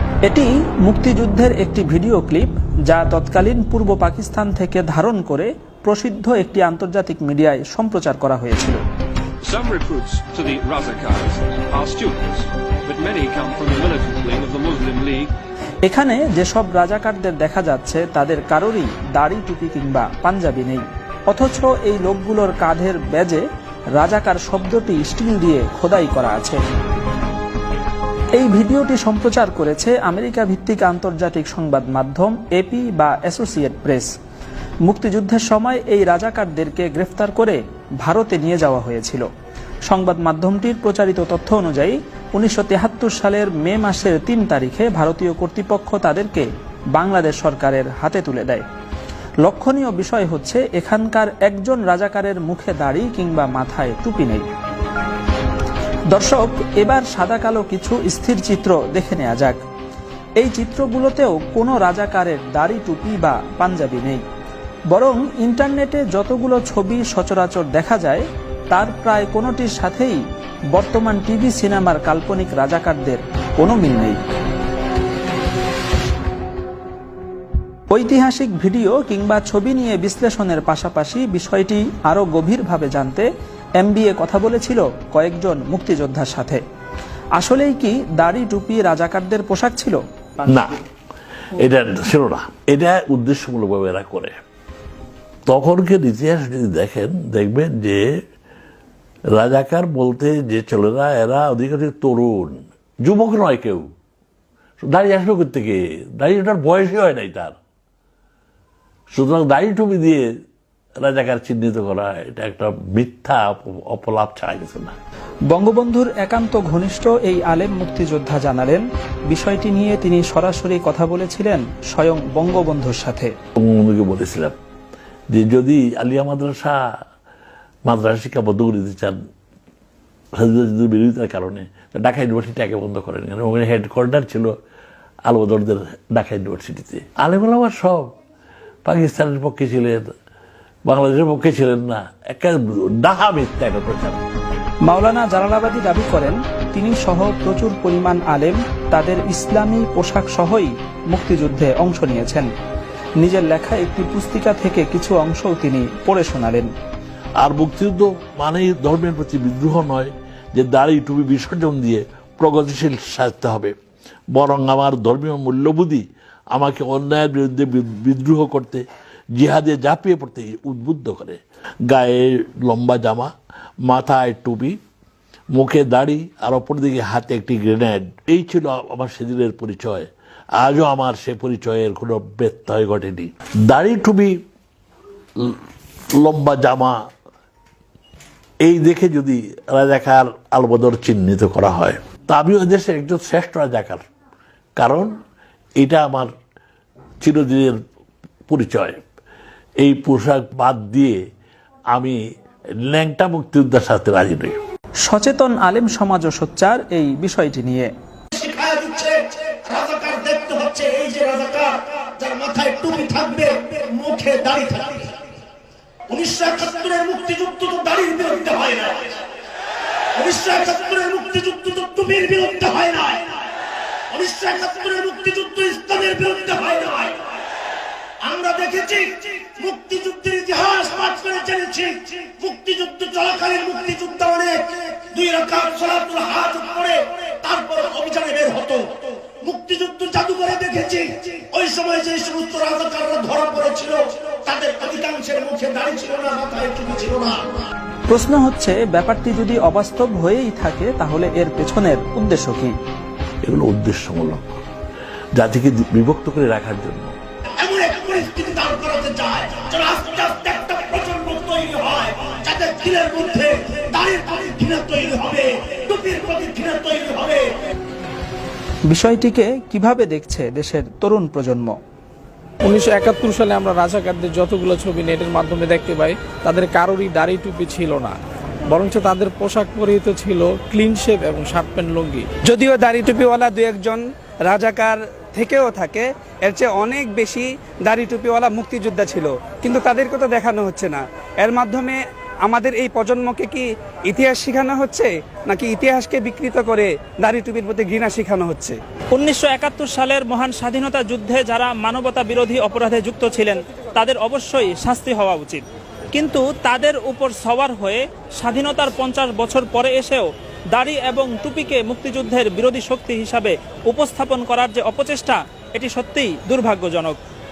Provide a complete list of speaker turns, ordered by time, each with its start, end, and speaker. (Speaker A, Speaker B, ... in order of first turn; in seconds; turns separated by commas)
Speaker A: 0.3-8.8, Speaker B: 9.4-15.3, Speaker A: 15.8-23.4, Speaker A: 23.9-26.6, Speaker A: 28.3-34.1, Speaker A: 34.9-39.2, Speaker A: 39.9-48.6, Speaker A: 49.4-54.5, Speaker A: 56.1-59.6, Speaker A: 60.4-64.2, Speaker A: 64.9-70.2, Speaker A: 70.7-74.2, Speaker A: 77.9-83.3, Speaker A: 83.8-86.6, Speaker A: 87.4-90.0, Speaker C: 90.5-90.8, Speaker C: 91.5-94.4, Speaker C: 95.5-98.1, Speaker C: 99.3-103.9, Speaker C: 104.8-107.6, Speaker C: 109.1-110.3, Speaker C: 111.0-115.0, Speaker A: 115.5-123.3, Speaker C: 123.6-124.5, Speaker C: 125.3-126.8, Speaker C: 127.8-129.2, Speaker C: 130.4-134.5, Speaker C: 135.3-138.1, Speaker C: 138.8-140.1, Speaker C: 140.8-144.2, Speaker A: 144.8-152.5, Speaker A: 153.2-156.7, Speaker C: 157.4-163.7, Speaker C: 164.3-168.8, Speaker C: 169.3-173.3, Speaker C: 173.8-174.8, Speaker C: 175.5-184.4, Speaker C: 186.2-187.1, Speaker C: 188.6-194.0, Speaker C: 194.8-195.1, Speaker C: 195.8-196.3, Speaker C: 197.2-197.8, Speaker C: 198.5-199.0, Speaker C: 199.8-201.2, Speaker C: 202.8-204.6, Speaker A: 205.1-207.9, Speaker D: 208.3-215.1, Speaker D: 216.1-219.2, Speaker D: 220.1-223.4, Speaker D: 224.1-227.3, Speaker D: 228.2-247.4, Speaker A: 248.1-252.7, Speaker C: 253.4-254.6, Speaker C: 255.3-257.1, Speaker D: 257.6-267.6, Speaker A: 268.9-271.8, Speaker E: 272.6-282.3, Speaker F: 282.4-298.8, Speaker A: 299.1-317.2